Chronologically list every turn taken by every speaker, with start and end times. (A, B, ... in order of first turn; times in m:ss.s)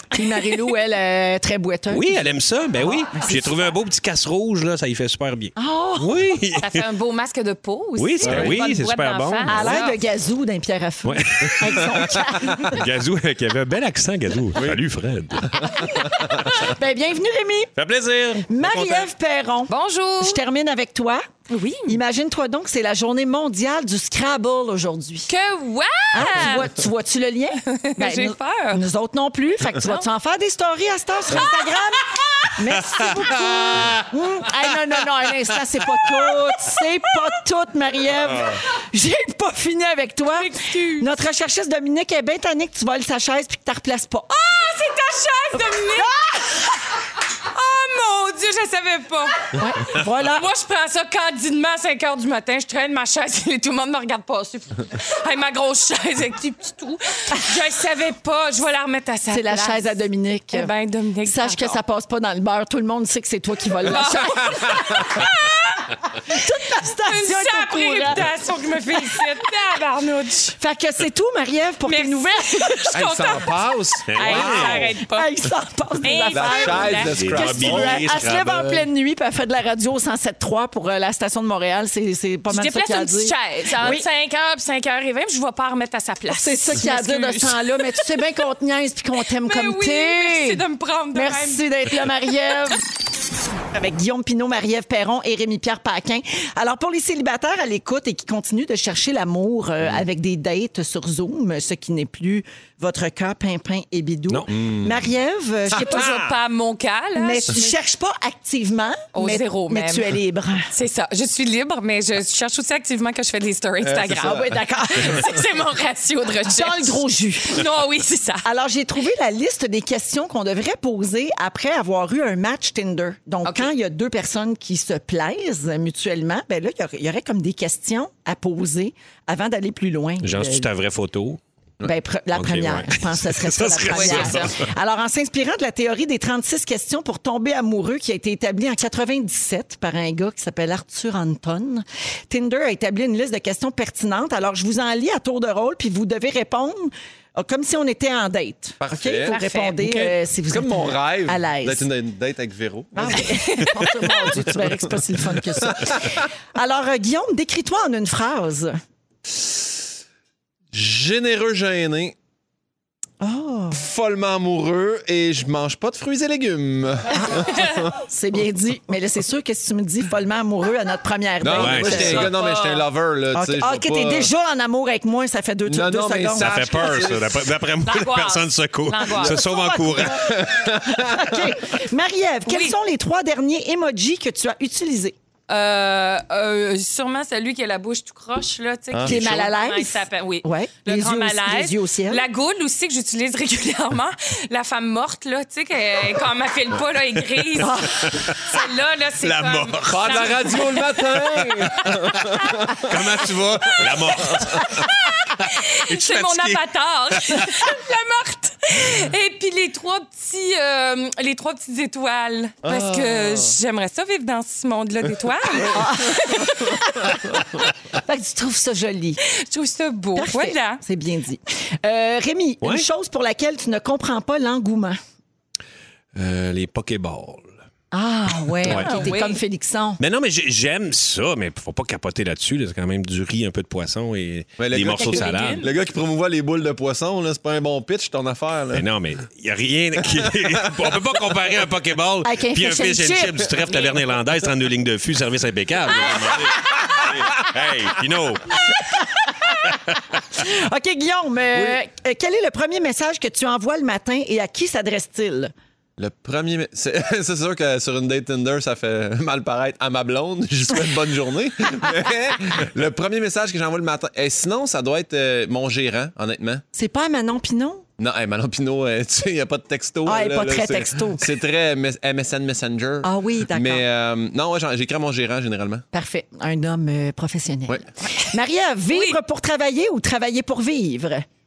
0:00.1-0:02.2 A
0:01.9-0:06.8 B
0:02.8-0:03.7 A
0:05.6-0:06.2 A
0:06.6-0:09.9 C
0:08.0-0:09.9 B
0:08.2-0:08.6 D
0:09.4-0:12.9 A
0:11.0-0:15.9 B
0:16.1-0:16.5 D
0:16.5-0:17.7 A
0:17.8-0:19.1 B
0:18.5-0:21.2 A
0:19.7-0:20.4 C
0:21.5-0:22.0 C
0:21.8-0:25.3 A
0:25.3-0:26.7 C
0:26.1-0:44.6 A
0:27.6-0:28.8 C
0:29.8-0:30.0 C
0:40.3-0:41.1 C
0:44.5-0:46.1 C
0:45.9-0:46.5 A
0:47.4-1:00.0 C
0:49.5-0:50.5 A
0:59.3-1:00.7 A
1:00.5-1:01.8 C
1:01.2-1:04.4 A
1:03.8-1:06.0 C
1:06.2-1:08.3 A
1:07.0-1:10.6 C
1:08.9-1:09.3 A
1:10.6-1:12.9 A
1:11.8-1:15.3 C
1:12.9-1:14.7 D
1:14.1-1:14.9 B
1:14.2-1:24.1 A
1:16.0-1:17.1 C
1:16.3-1:18.1 D
1:17.1-1:18.9 B
1:22.5-1:28.2 C
1:26.3-1:30.6 A
1:29.4-1:31.6 C
1:31.1-1:32.8 A
1:33.7-1:46.3 A
1:44.5-1:44.9 D
1:45.7-1:47.7 C
1:45.7-1:46.3 B
1:47.1-1:50.7 A
1:49.1-1:50.1 C
1:50.7-1:58.4 C
1:53.8-1:54.6 D
1:54.2-1:55.2 A
1:56.4-1:57.7 A
1:58.4-2:10.7 A
2:03.4-2:03.7 C
2:10.2-2:11.4 B
2:11.8-2:31.9 A
2:12.3-2:14.4 B
2:13.9-2:14.6 C
2:28.8-2:33.3 D
2:29.3-2:29.8 C
2:32.9-2:38.8 A
2:33.0-2:34.3 C
2:35.5-2:36.3 D
2:40.7-2:42.1 D
2:43.2-2:43.8 A
2:43.8-2:47.9 D
2:47.1-2:52.4 A
2:47.4-2:47.8 C
2:51.4-2:54.3 D
2:51.5-2:52.3 B
2:51.8-2:52.8 C
2:53.3-2:56.8 A
2:55.6-2:57.6 D
2:56.4-3:00.4 B
2:57.8-2:59.4 C
2:59.2-3:05.1 A
3:00.1-3:01.5 D
3:02.5-3:02.8 C
3:05.5-3:21.0 C
3:08.9-3:09.2 D
3:09.0-3:12.3 A
3:17.4-3:18.5 B
3:17.6-3:18.2 A
3:19.2-3:20.5 B
3:19.9-3:22.9 D
3:21.2-3:27.8 B
3:21.8-3:22.7 C
3:24.0-3:37.2 C
3:32.6-3:33.5 D
3:35.7-3:36.8 A
3:37.9-3:39.2 A
3:39.3-3:40.8 C
3:40.1-3:45.0 A
3:46.1-3:47.5 B
3:47.9-3:50.0 A
3:48.6-3:49.0 B
3:48.7-3:49.4 C
3:50.0-3:55.6 B
3:54.6-3:58.8 D
3:54.9-3:55.7 C
3:58.7-4:08.8 B
4:00.3-4:00.9 D
4:02.2-4:03.9 A
4:06.1-4:06.5 A
4:08.6-4:15.5 A
4:09.7-4:10.0 B
4:16.0-4:26.6 D
4:26.7-4:27.8 A
4:28.0-4:35.8 D
4:30.0-4:31.3 A
4:33.0-4:33.8 A
4:35.9-4:41.2 A
4:38.9-4:39.2 C